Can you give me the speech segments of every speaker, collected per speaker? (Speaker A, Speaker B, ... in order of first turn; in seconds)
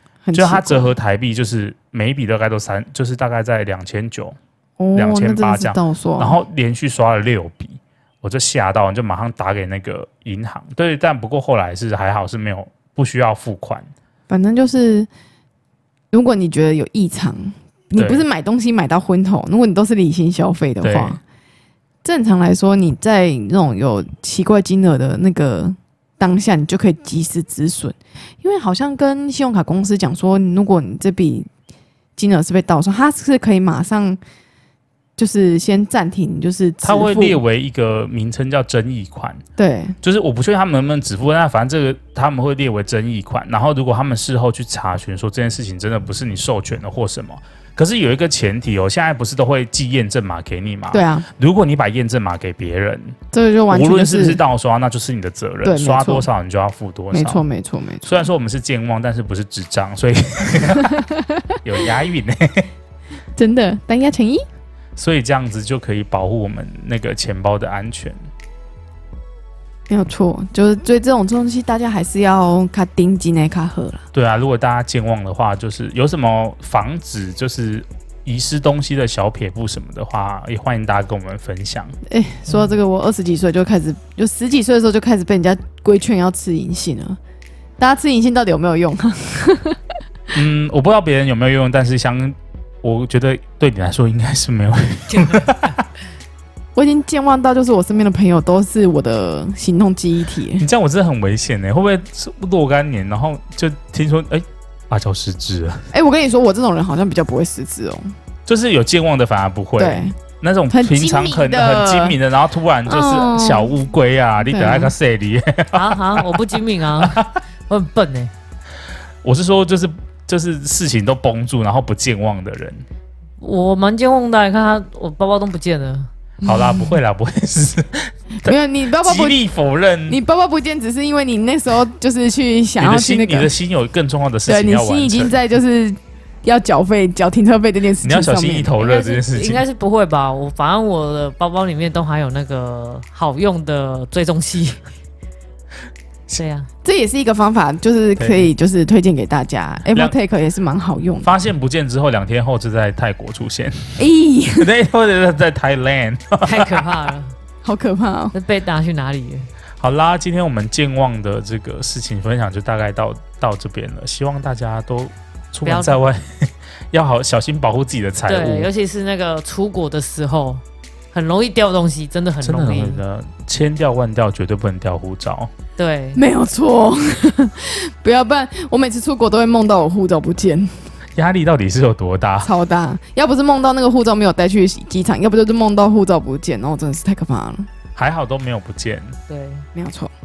Speaker A: 0.2-0.9, 4.8-6.4, 14.3-15.1, 16.1-21.2, 22.0-31.5, 32.1-34.2, 35.2-37.4, 39.6-40.0, 50.9-51.2, 53.3-54.4, 55.6-56.3, 57.1-58.3, 60.8-61.4, 63.4-64.4, 69.9-74.0, 82.1-87.2, 87.8-89.8, 96.7-100.6, 105.9-108.1, 109.8-110.2, 110.7-112.2, 112.9-113.7, 114.4-114.9, 126.4-127.0, 128.4-129.4, 130.1-133.5, 134.5-138.8, 146.8-151.3, 154.0-154.7, 157.6-158.3, 176.1-180.8, 182.4-187.7, 189.7-190.1
Speaker B: 0.3-4.4, 4.9-13.9, 18.0-18.2, 20.8-21.2, 36.8-39.4, 40.0-53.2, 53.7-57.4, 58.0-61.1, 61.6-62.7, 65.0-68.2, 74.1-82.0, 90.3-95.8, 100.6-105.8, 108.5-116.5, 117.0-117.3, 119.2-122.8, 126.4-130.2, 132.8-135.4, 138.0-139.6, 148.2-148.5, 151.2-154.0, 154.6-156.9, 159.8-168.7, 172.4-175.5, 181.2-182.5, 187.9-189.2
Speaker C: 95.2-95.4, 115.7-118.3, 123.4-126.1, 138.8-144.8, 146.3-146.7, 156.4-157.3, 158.3-159.5, 165.7-166.0, 168.3-170.6, 171.1-173.0, 175.8-176.2, 189.3-189.7